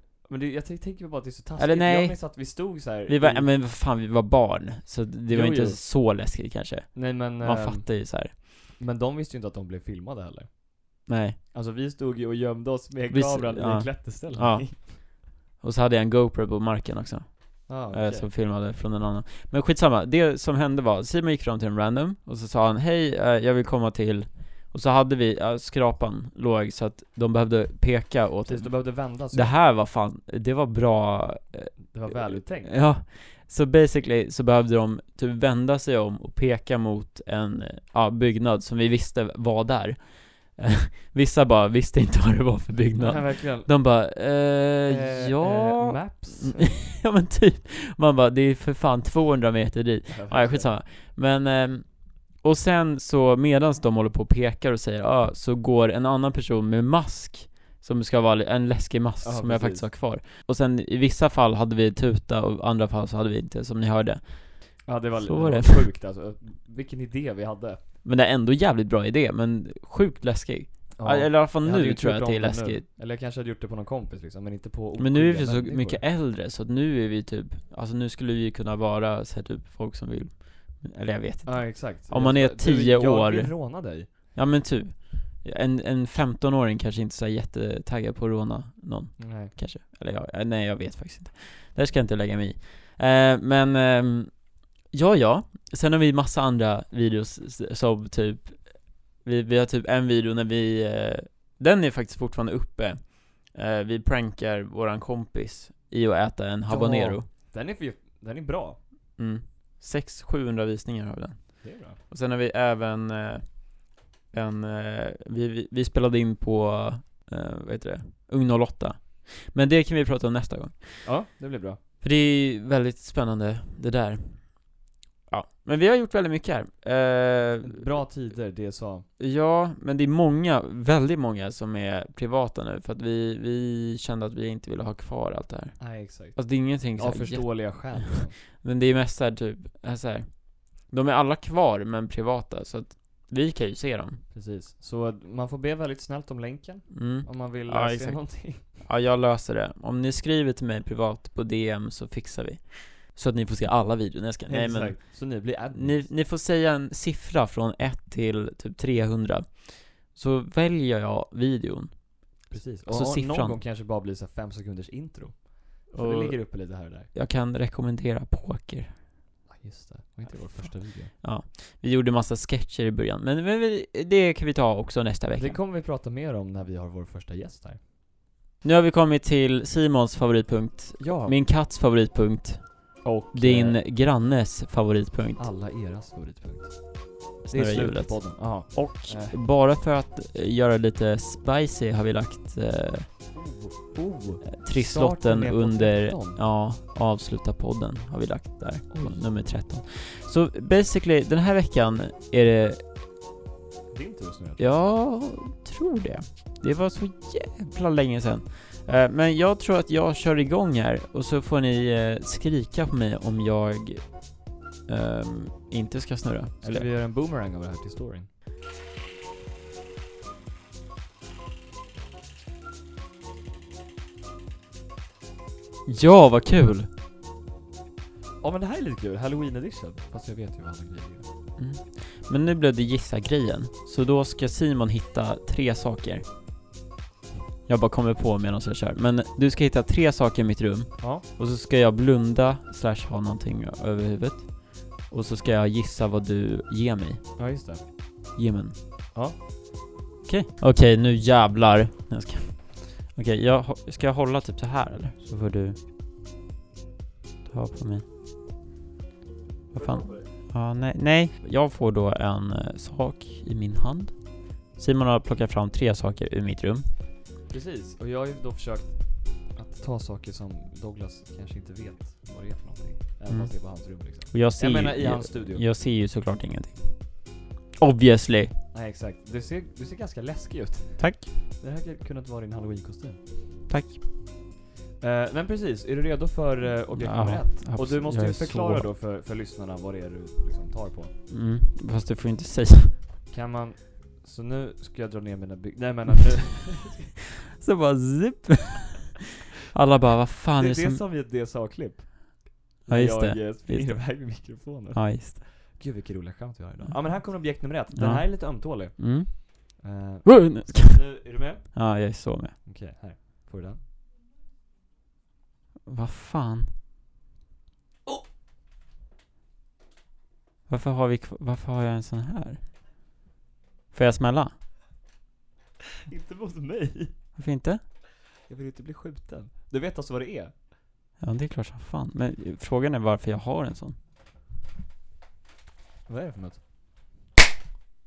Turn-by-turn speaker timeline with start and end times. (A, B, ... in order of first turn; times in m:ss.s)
0:00.2-0:03.5 A
0:01.6-0:02.5 B
0:03.1-0:08.3 B
0:05.3-0:05.8 A
0:06.9-0:14.9 A
0:11.1-0:11.4 B
0:13.1-1:05.8 B
0:17.7-0:18.3 A
0:28.5-0:29.5 A
0:31.9-0:32.8 A
0:43.0-0:43.7 A
0:44.9-0:46.7 A
0:50.1-0:50.7 A
0:59.2-0:59.9 A
1:04.8-1:07.8 A
1:08.0-1:12.8 B
1:11.0-1:16.0 A
1:15.0-1:47.2 B
1:21.4-1:24.1 A
1:29.2-1:29.5 A
1:46.7-1:48.8 A
1:49.2-2:01.1 B
1:51.6-1:52.0 A
2:01.0-2:01.8 A
2:02.0-2:08.0 B
2:07.6-2:09.1 A
2:09.2-2:24.2 B
2:15.8-2:18.4 A
2:24.3-2:28.6 A
2:26.9-2:43.6 B
2:34.5-2:36.1 A
2:42.5-2:47.1 A
2:45.9-2:49.0 B
2:49.5-2:51.1 A
2:50.3-2:55.6 B
2:55.3-2:57.8 A
2:58.6-3:05.4 B
3:01.0-3:01.4 A
3:03.0-3:03.8 A
3:05.4-3:09.4 A
3:07.4-3:13.1 B
3:13.3-3:16.4 A
3:14.5-3:22.8 B
3:18.9-3:19.3 A
3:23.9-3:24.9 A
3:24.6-3:36.8 B
3:36.6-3:38.3 A
3:45.9-3:46.9 B
3:48.4-3:51.3 A
3:51.6-3:56.3 B
3:57.6-4:07.4 B
4:01.0-4:01.2 A
4:07.4-4:07.8 A
4:08.3-4:08.7 B
4:10.2-4:15.8 B
4:17.4-4:18.1 B
4:19.7-4:20.3 A
4:19.7-4:26.9 B
4:27.5-4:35.6 A
4:33.3-4:38.5 B
4:38.7-4:43.2 A
4:41.0-4:41.3 B
4:43.7-4:44.0 B
4:45.0-4:51.1 A
4:47.0-4:48.8 B
4:51.3-4:52.9 B
4:53.3-4:57.1 A
4:57.6-4:59.1 B
4:59.7-5:01.0 B
5:00.6-5:11.9 A
5:02.8-5:05.4 B
5:06.9-5:12.6 B
5:12.6-5:13.8 A
5:15.8-5:16.7 B
5:20.7-5:22.6 B
5:23.9-5:24.5 B
5:26.1-5:27.2 A
5:27.4-5:27.8 B
5:28.4-5:30.5 A
5:31.2-5:34.0 B
5:36.1-5:36.6 A